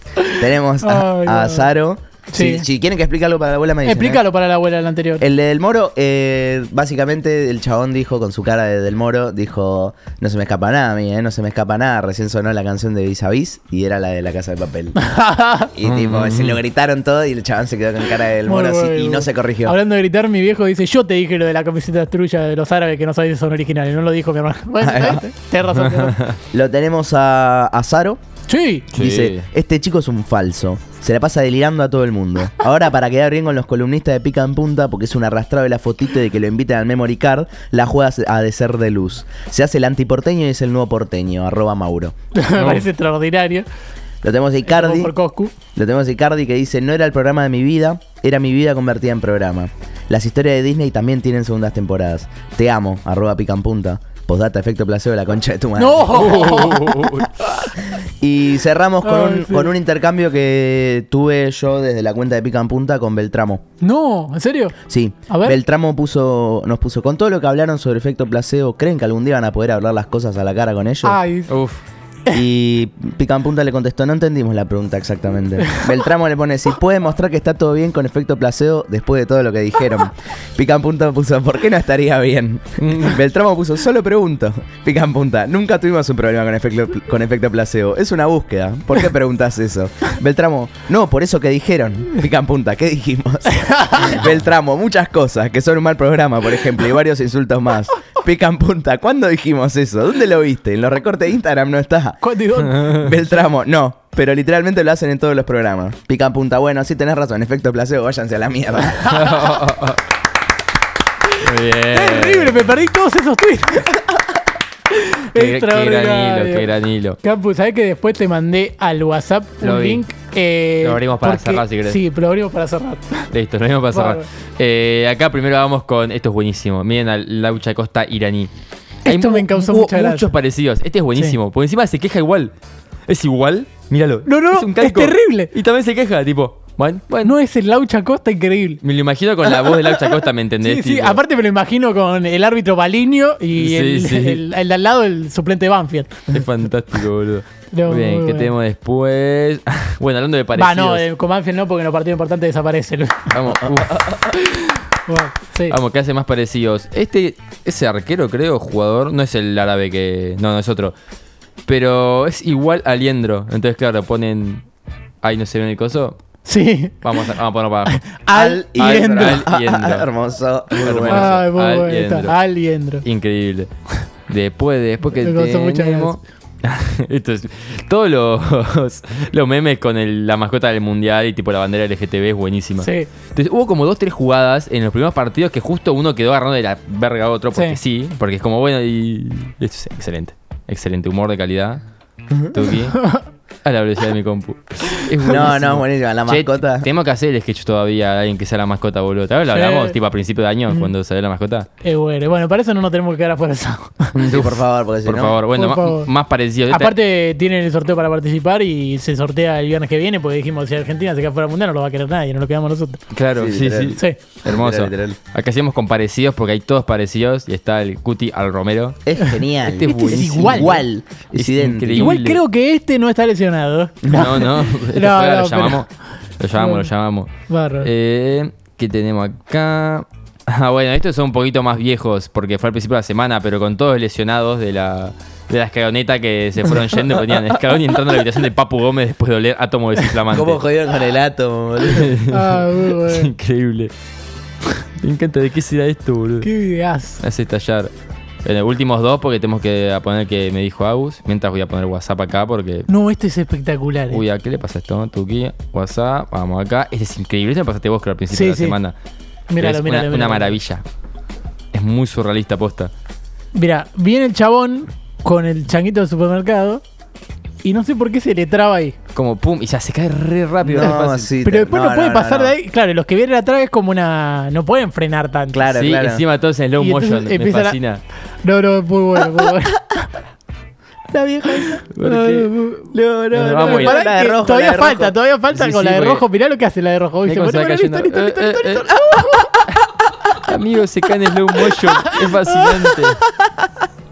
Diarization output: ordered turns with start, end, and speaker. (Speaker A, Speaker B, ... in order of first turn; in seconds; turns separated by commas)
Speaker A: 0.2-1.7, Speaker B: 0.4-4.2, Speaker A: 2.3-2.6, Speaker A: 3.9-5.2, Speaker B: 5.2-15.0, Speaker A: 15.0-15.7, Speaker B: 15.7-19.8, Speaker C: 15.8-16.6, Speaker A: 18.5-26.2, Speaker B: 24.8-25.2, Speaker C: 25.8-26.4, Speaker B: 26.5-28.2, Speaker A: 28.5-28.9, Speaker C: 28.9-29.4, Speaker B: 28.9-42.1, Speaker A: 42.4-43.7, Speaker C: 42.6-42.9, Speaker B: 44.2-45.1, Speaker A: 44.6-45.5, Speaker B: 45.8-56.6, Speaker A: 55.8-57.1, Speaker C: 56.1-57.3, Speaker B: 57.9-63.6, Speaker A: 59.0-59.7, Speaker A: 63.8-64.8, Speaker B: 64.9-71.2, Speaker A: 65.3-65.6, Speaker A: 71.0-71.5, Speaker C: 71.5-71.8, Speaker B: 72.3-109.2, Speaker C: 82.8-83.2, Speaker A: 93.6-94.2, Speaker A: 102.2-103.0, Speaker C: 109.0-110.0, Speaker C: 111.4-112.8, Speaker A: 111.9-114.2, Speaker A: 114.9-116.7, Speaker C: 115.3-117.2, Speaker A: 117.2-123.3, Speaker C: 119.6-120.0, Speaker C: 120.8-122.0, Speaker C: 123.3-128.5, Speaker A: 123.9-124.2, Speaker A: 129.1-130.3, Speaker C: 129.1-132.5, Speaker C: 133.1-137.4, Speaker A: 134.2-135.5, Speaker A: 137.2-138.8, Speaker C: 138.8-141.2, Speaker A: 139.4-146.1, Speaker C: 143.6-144.4, Speaker C: 146.3-151.1, Speaker A: 147.7-148.5, Speaker A: 150.6-153.3, Speaker C: 153.3-154.6, Speaker A: 155.1-155.8, Speaker C: 155.7-160.9, Speaker C: 161.7-164.6, Speaker C: 165.2-166.2, Speaker A: 166.5-167.2, Speaker C: 167.0-168.1, Speaker A: 167.9-169.4, Speaker B: 168.3-171.4, Speaker C: 168.8-170.1, Speaker C: 170.7-172.4, Speaker A: 171.1-173.0, Speaker C: 173.0-173.7, Speaker C: 174.3-191.8, Speaker A: 175.2-176.2, Speaker A: 182.8-183.1, Speaker A: 187.5-187.8, Speaker C: 192.4-193.0, Speaker A: 192.9-193.2, Speaker C: 193.7-201.7, Speaker B: 195.3-196.9, Speaker A: 199.5-200.0, Speaker A: 201.8-204.2, Speaker B: 204.1-205.4, Speaker C: 204.3-206.9, Speaker A: 205.6-206.1, Speaker A: 206.7-213.0, Speaker C: 213.1-219.1, Speaker B: 213.4-215.2, Speaker B: 219.1-222.1, Speaker C: 219.7-220.8, Speaker A: 219.8-220.8, Speaker C: 221.3-222.4, Speaker A: 222.0-225.8, Speaker C: 224.1-225.9, Speaker C: 226.4-227.3, Speaker A: 226.5-226.9, Speaker A: 227.5-227.9, Speaker C: 227.8-240.6, Speaker B: 240.3-242.2, Speaker C: 241.9-243.9, Speaker A: 242.3-243.3, Speaker C: 245.0-246.5, Speaker A: 246.4-247.2, Speaker C: 247.2-247.9, Speaker C: 248.4-252.9, Speaker A: 252.9-254.2, Speaker C: 254.1-258.9, Speaker A: 258.3-258.8, Speaker A: 259.5-260.6, Speaker C: 259.6-260.8, Speaker C: 261.7-262.9, Speaker A: 263.5-266.8, Speaker A: 267.6-268.9, Speaker C: 269.1-271.3, Speaker B: 270.6-272.6, Speaker A: 271.4-275.7, Speaker B: 275.5-276.2, Speaker C: 275.7-278.0, Speaker A: 276.8-277.8, Speaker A: 278.4-280.1, Speaker B: 281.1-281.9, Speaker C: 281.9-282.5, Speaker A: 282.0-282.9, Speaker B: 282.9-285.1, Speaker C: 283.3-284.0, Speaker A: 283.6-289.5, Speaker C: 285.5-286.2, Speaker C: 287.3-288.9, Speaker B: 289.0-289.5, Speaker C: 289.7-293.2, Speaker A: 291.7-293.6